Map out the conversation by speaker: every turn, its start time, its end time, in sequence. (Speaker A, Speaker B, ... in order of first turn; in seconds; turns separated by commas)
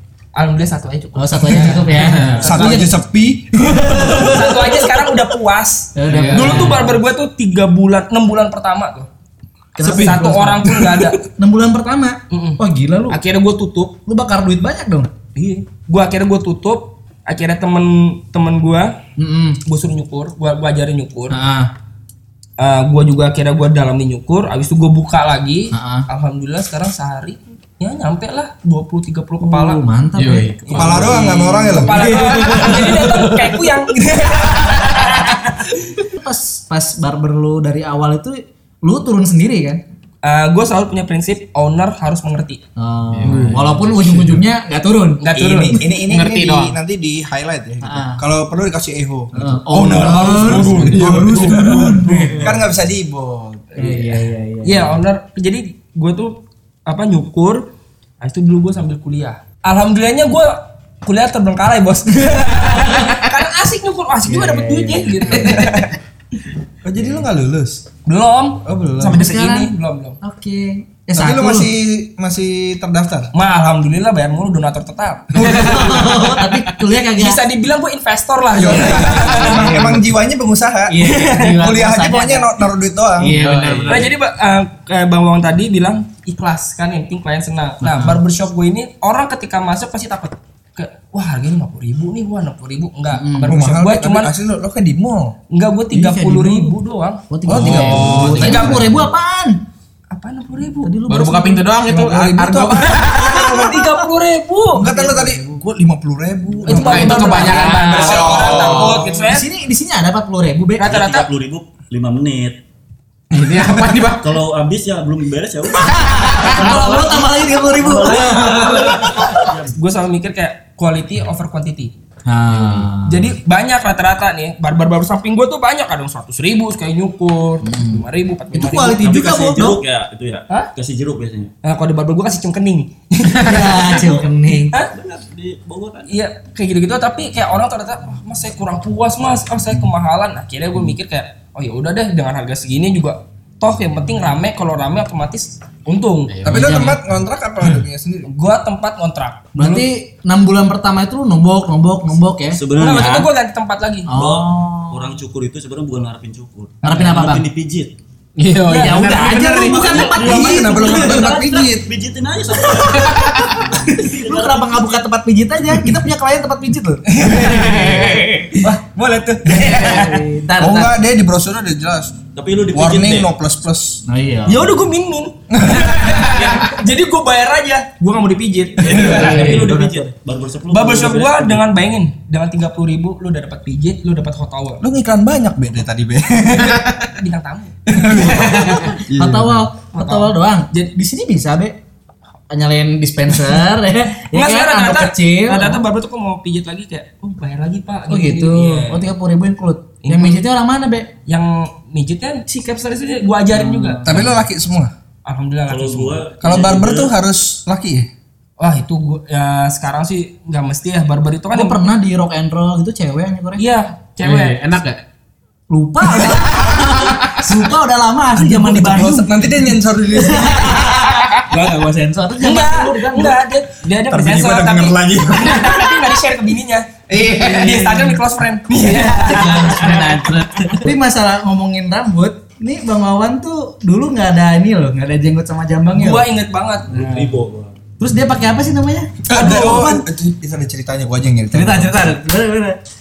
Speaker A: 0.3-2.7, Speaker B: 1.1-3.0, Speaker C: 1.9-2.8, Speaker D: 2.4-4.5, Speaker B: 3.6-4.8, Speaker A: 4.2-9.1, Speaker B: 6.0-7.0, Speaker C: 6.1-6.8, Speaker B: 9.8-13.2, Speaker A: 9.8-11.2, Speaker A: 12.3-13.9, Speaker B: 14.1-15.1, Speaker A: 15.3-18.9, Speaker B: 19.2-19.6, Speaker A: 19.6-21.4, Speaker B: 21.3-21.7, Speaker A: 22.6-29.8, Speaker B: 25.7-26.1, Speaker B: 29.4-35.3, Speaker C: 30.2-31.3, Speaker A: 30.7-36.0, Speaker D: 30.7-32.2, Speaker B: 36.1-39.8, Speaker A: 40.2-42.6, Speaker B: 42.8-45.7, Speaker C: 43.1-44.4, Speaker A: 45.2-45.8, Speaker D: 45.4-53.7, Speaker C: 45.9-46.8, Speaker B: 47.8-48.2, Speaker B: 49.3-52.6, Speaker C: 49.8-52.0, Speaker A: 50.3-50.7, Speaker A: 51.3-52.2, Speaker A: 53.7-54.1, Speaker B: 53.8-55.0, Speaker A: 54.6-57.6, Speaker A: 58.2-65.9, Speaker B: 64.2-65.8, Speaker D: 65.3-65.7, Speaker D: 66.8-67.8, Speaker B: 67.0-67.2, Speaker A: 68.1-70.2, Speaker D: 68.7-69.2, Speaker B: 69.0-71.7, Speaker D: 71.2-73.3, Speaker A: 73.3-75.7, Speaker B: 75.3-77.4, Speaker D: 75.3-76.2, Speaker C: 75.6-76.6, Speaker A: 77.2-79.8, Speaker D: 78.5-83.4, Speaker B: 78.6-80.1, Speaker B: 80.9-82.6, Speaker A: 81.0-81.6, Speaker B: 83.2-84.1, Speaker C: 83.2-84.1, Speaker E: 83.6-84.0, Speaker A: 83.9-94.3, Speaker B: 87.8-88.2, Speaker B: 93.1-93.5, Speaker D: 93.5-95.3, Speaker A: 95.5-97.2, Speaker B: 95.9-96.8, Speaker B: 97.3-99.6, Speaker D: 97.5-98.8, Speaker C: 97.5-99.0, Speaker A: 98.4-98.8, Speaker A: 100.1-101.0, Speaker B: 100.8-101.7, Speaker C: 101.1-103.5, Speaker D: 101.8-103.9, Speaker A: 103.2-105.0, Speaker B: 103.5-104.0, Speaker D: 104.7-109.1, Speaker B: 104.8-105.6, Speaker A: 106.7-109.5, Speaker C: 106.7-109.2, Speaker B: 106.7-111.0, Speaker A: 110.8-111.3, Speaker E: 110.8-112.6, Speaker C: 113.3-114.2, Speaker E: 114.2-119.8, Speaker C: 115.9-116.9, Speaker B: 115.9-119.5, Speaker A: 118.3-119.2, Speaker A: 119.7-121.9, Speaker B: 122.3-123.4, Speaker C: 122.5-122.9, Speaker A: 123.1-129.1, Speaker B: 127.6-129.8, Speaker E: 129.0-131.5, Speaker A: 131.7-134.0, Speaker B: 133.4-134.7, Speaker E: 134.8-136.1, Speaker A: 136.1-146.3, Speaker C: 146.3-147.0, Speaker B: 146.4-147.0, Speaker D: 146.4-148.3, Speaker A: 148.2-149.8, Speaker B: 149.5-152.6, Speaker E: 152.5-153.3, Speaker A: 152.8-154.1, Speaker B: 154.1-155.1, Speaker E: 154.1-157.9, Speaker B: 156.8-157.5, Speaker C: 158.4-160.3, Speaker A: 158.7-160.0, Speaker B: 158.7-161.9, Speaker E: 159.9-164.9, Speaker D: 160.2-161.6, Speaker C: 162.8-163.6, Speaker B: 163.4-168.7, Speaker A: 167.1-170.2, Speaker C: 167.5-168.3, Speaker B: 169.5-170.9, Speaker D: 169.5-170.0, Speaker D: 170.6-172.2, Speaker E: 172.3-173.3, Speaker D: 172.7-174.0, Speaker B: 174.1-174.8, Speaker A: 174.5-179.7, Speaker D: 175.5-176.4, Speaker E: 178.8-181.7, Speaker B: 178.9-180.1, Speaker A: 180.7-184.8, Speaker D: 184.8-187.0, Speaker C: 186.6-186.9, Speaker A: 187.0-187.8, Speaker C: 187.9-189.0, Speaker D: 187.9-189.7, Speaker B: 188.1-191.8, Speaker A: 189.9-190.9, Speaker B: 192.5-195.8, Speaker A: 194.3-199.1, Speaker B: 198.1-201.1, Speaker A: 200.0-200.4, Speaker A: 201.3-204.0, Speaker B: 203.5-204.4, Speaker D: 204.1-204.9, Speaker A: 205.3-206.2, Speaker E: 205.7-207.1, Speaker D: 206.4-208.1, Speaker A: 208.6-211.8, Speaker B: 211.5-213.6, Speaker A: 213.6-214.8, Speaker C: 214.2-215.0, Speaker B: 215.7-223.4, Speaker C: 216.2-217.3, Speaker D: 218.4-221.0, Speaker A: 222.4-230.3, Speaker D: 224.1-226.1, Speaker D: 227.1-228.2, Speaker B: 228.8-236.3, Speaker A: 235.9-237.4, Speaker E: 236.9-237.8, Speaker B: 238.0-240.1, Speaker D: 239.3-242.1, Speaker B: 241.5-242.8